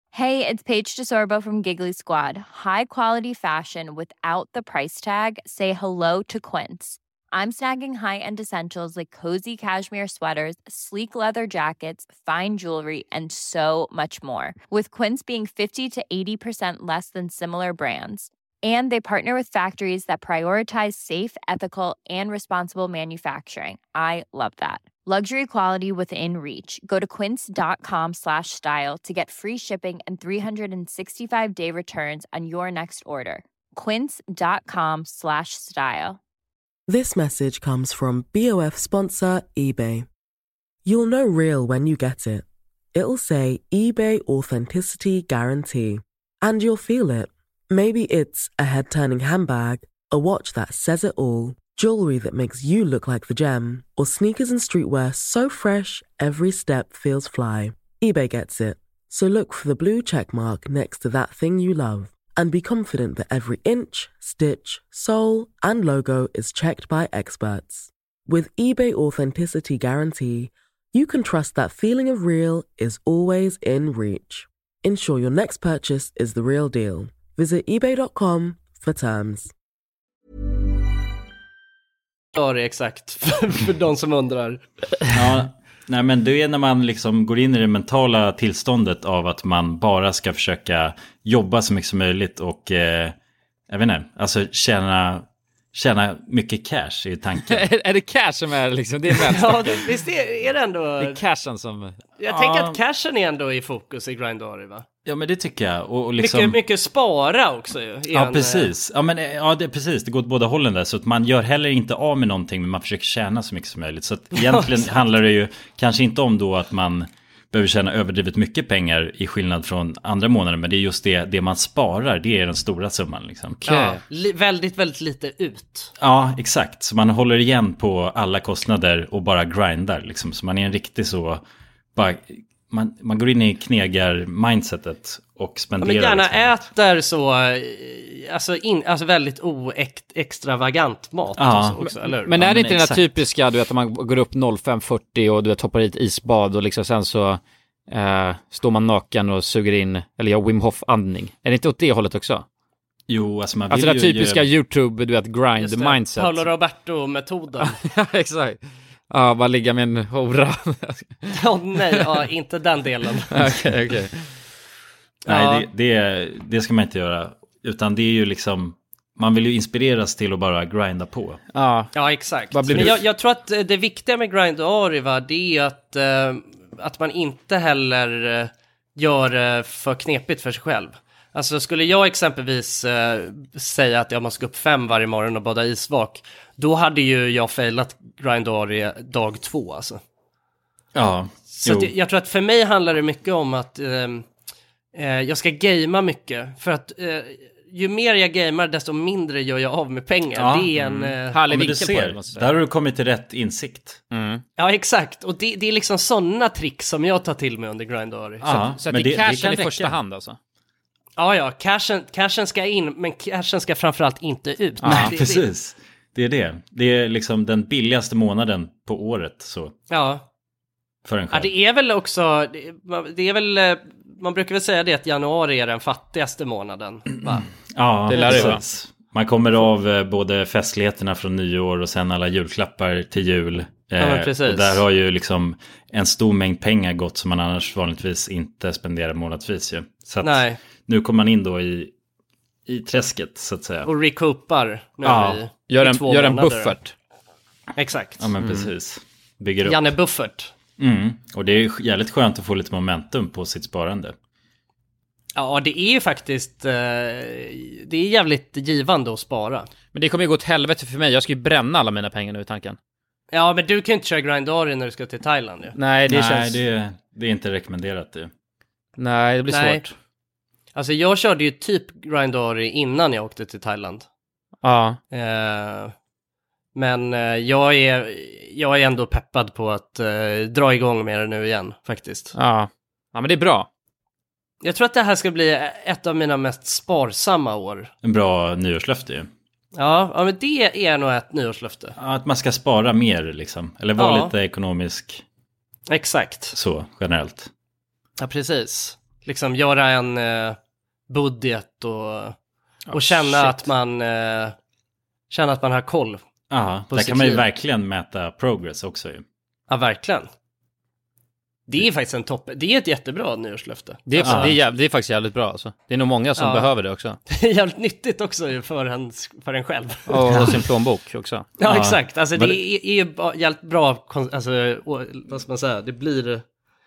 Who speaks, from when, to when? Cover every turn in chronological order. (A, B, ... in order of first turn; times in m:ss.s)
0:00.1-0:36.2 A
0:36.9-0:40.1 B
0:40.8-1:19.5 B
1:22.4-1:24.6 C
1:25.1-1:33.2 D
1:33.7-1:37.6 D
1:37.5-1:39.9 E
1:39.1-1:41.2 C
1:41.0-1:42.0 E
1:42.2-1:44.8 C
1:42.2-1:42.8 D
1:45.1-1:46.6 D
1:46.2-1:48.7 C
1:48.1-2:03.6 D
1:54.4-1:54.9 C
2:03.6-2:04.0 E
2:03.6-2:05.9 C
2:06.0-2:11.4 D
2:12.0-2:16.5 D
2:15.8-2:22.3 C
2:21.4-2:23.1 D
2:22.3-2:32.4 E
2:33.1-2:34.5 D
2:33.7-2:36.5 E
2:35.6-2:37.8 C
2:37.6-2:41.4 E
2:41.3-2:43.6 C
2:43.3-2:44.2 E
2:45.3-2:45.7 C
2:45.3-2:51.4 D
2:51.5-2:51.9 E
2:51.9-3:10.0 C
2:52.5-2:53.0 E
3:11.0-3:11.9 D
3:11.5-3:14.2 C
3:14.9-3:21.8 C
3:20.4-3:24.0 D
3:21.3-3:22.5 E
3:24.1-3:24.4 E
3:24.6-3:28.4 C
3:28.4-3:30.0 D
3:28.4-3:30.4 E
3:31.2-3:35.5 C
3:34.8-3:35.2 E
3:34.8-3:39.7 D
3:39.9-3:40.2 C
3:41.1-3:41.5 D
3:41.3-3:47.5 C
3:47.6-4:01.9 D
3:48.1-3:48.6 E
3:48.1-3:48.5 C
3:54.0-3:54.8 C
4:00.2-4:00.6 C
4:02.7-4:03.9 D
4:03.8-4:06.8 C
4:05.0-4:06.9 E
4:07.8-4:08.3 C
4:08.2-4:09.9 D
4:08.4-4:08.7 E
4:09.6-4:10.5 C
4:10.8-4:14.2 D
4:15.4-4:19.7 C
4:19.9-4:22.8 E
4:23.3-4:25.8 C
4:25.8-4:26.6 E
4:26.1-4:28.3 D
4:29.0-4:29.9 E
4:29.5-4:29.8 C
4:30.7-4:34.0 C
4:34.6-4:35.0 E
4:35.1-4:35.9 C
4:36.8-4:42.3 C
4:42.3-4:43.7 E
4:44.6-4:47.9 C
4:48.0-4:49.3 D
4:49.8-4:52.0 C
4:52.0-4:55.2 D
4:54.0-4:54.3 C
4:55.9-4:56.6 C
4:56.5-4:57.5 D
4:58.2-5:00.6 C
5:01.1-5:02.4 C
5:02.9-5:03.7 E
5:02.9-5:04.6 C
5:05.3-5:06.2 C
5:06.5-5:09.2 D
5:06.9-5:07.5 C
5:09.7-5:10.3 C
5:11.7-5:14.6 C
5:14.1-5:17.2 E
5:14.2-5:14.6 D
5:16.4-5:16.7 C
5:17.3-5:20.5 C
5:20.1-5:21.5 E
5:20.3-5:20.6 D
5:21.6-5:26.4 C
5:21.6-5:22.6 D